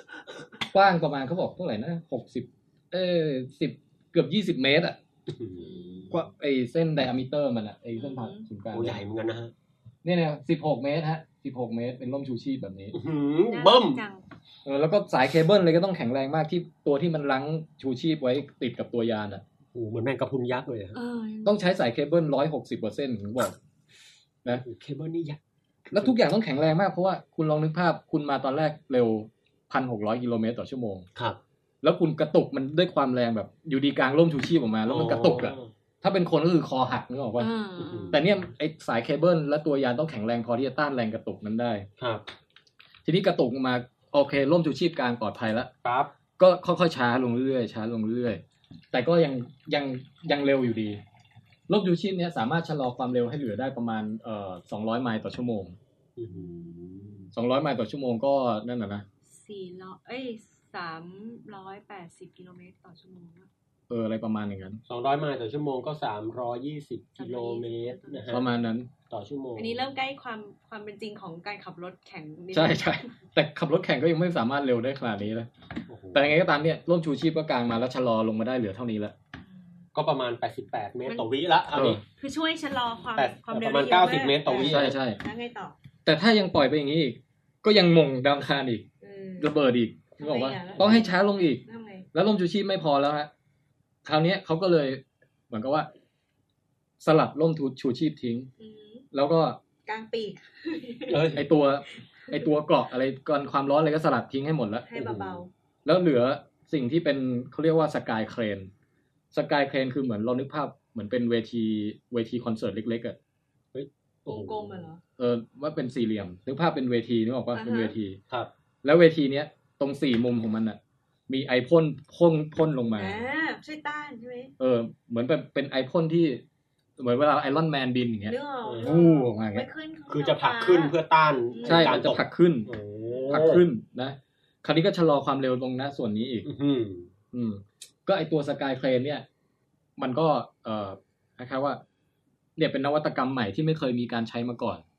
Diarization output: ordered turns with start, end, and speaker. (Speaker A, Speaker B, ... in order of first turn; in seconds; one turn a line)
Speaker A: 0.7-5.0
Speaker B: 5.3-6.0
Speaker C: 5.6-6.2
Speaker A: 6.1-9.0
Speaker C: 8.0-8.5
Speaker B: 8.7-9.5
Speaker A: 10.0-12.9
Speaker B: 12.9-14.0
Speaker C: 13.5-14.2
Speaker A: 14.6-19.4
Speaker B: 19.7-21.0
Speaker C: 20.9-21.6
Speaker A: 21.4-23.6
Speaker B: 24.5-26.2
Speaker A: 25.9-31.1
Speaker A: 31.8-37.5
Speaker B: 34.9-35.7
Speaker C: 37.4-38.2
Speaker B: 37.8-38.2
Speaker A: 38.1-41.9
Speaker B: 42.0-42.2
Speaker A: 43.0-45.7
Speaker B: 45.8-46.1
Speaker A: 46.4-48.4
Speaker A: 48.9-51.0
Speaker A: 51.7-55.8
Speaker B: 56.2-57.2
Speaker C: 56.3-57.3
Speaker A: 57.3-59.0
Speaker C: 59.2-63.5
Speaker A: 63.9-64.8
Speaker B: 64.9-68.4
Speaker C: 67.2-68.6
Speaker A: 68.3-68.9
Speaker B: 69.1-69.8
Speaker C: 69.5-73.1
Speaker A: 72.5-75.5
Speaker B: 75.9-76.3
Speaker A: 76.1-79.1
Speaker B: 79.9-82.0
Speaker A: 81.7-82.0
Speaker C: 82.2-85.8
Speaker B: 83.2-85.0
Speaker A: 84.6-85.2
Speaker A: 86.0-88.8
Speaker C: 89.0-89.6
Speaker A: 89.4-91.6
Speaker C: 90.2-92.0
Speaker B: 90.7-91.0
Speaker A: 92.1-93.3
Speaker A: 94.0-95.9
Speaker A: 97.0-98.5
Speaker C: 98.6-99.0
Speaker A: 99.1-99.6
Speaker C: 99.8-101.4
Speaker B: 101.1-101.4
Speaker A: 101.3-104.9
Speaker C: 104.8-105.5
Speaker B: 104.9-105.4
Speaker A: 105.8-108.7
Speaker A: 109.3-113.2
Speaker B: 113.7-114.9
Speaker C: 114.2-115.0
Speaker A: 115.2-118.2
Speaker C: 117.5-117.9
Speaker A: 118.8-123.2
Speaker C: 123.0-124.5
Speaker A: 124.6-126.4
Speaker A: 127.0-129.7
Speaker C: 128.2-130.9
Speaker B: 128.6-128.9
Speaker B: 130.1-133.6
Speaker C: 131.5-132.0
Speaker A: 131.6-132.7
Speaker A: 133.3-136.5
Speaker B: 136.4-137.1
Speaker A: 137.3-139.2
Speaker A: 140.0-141.8
Speaker A: 142.6-144.8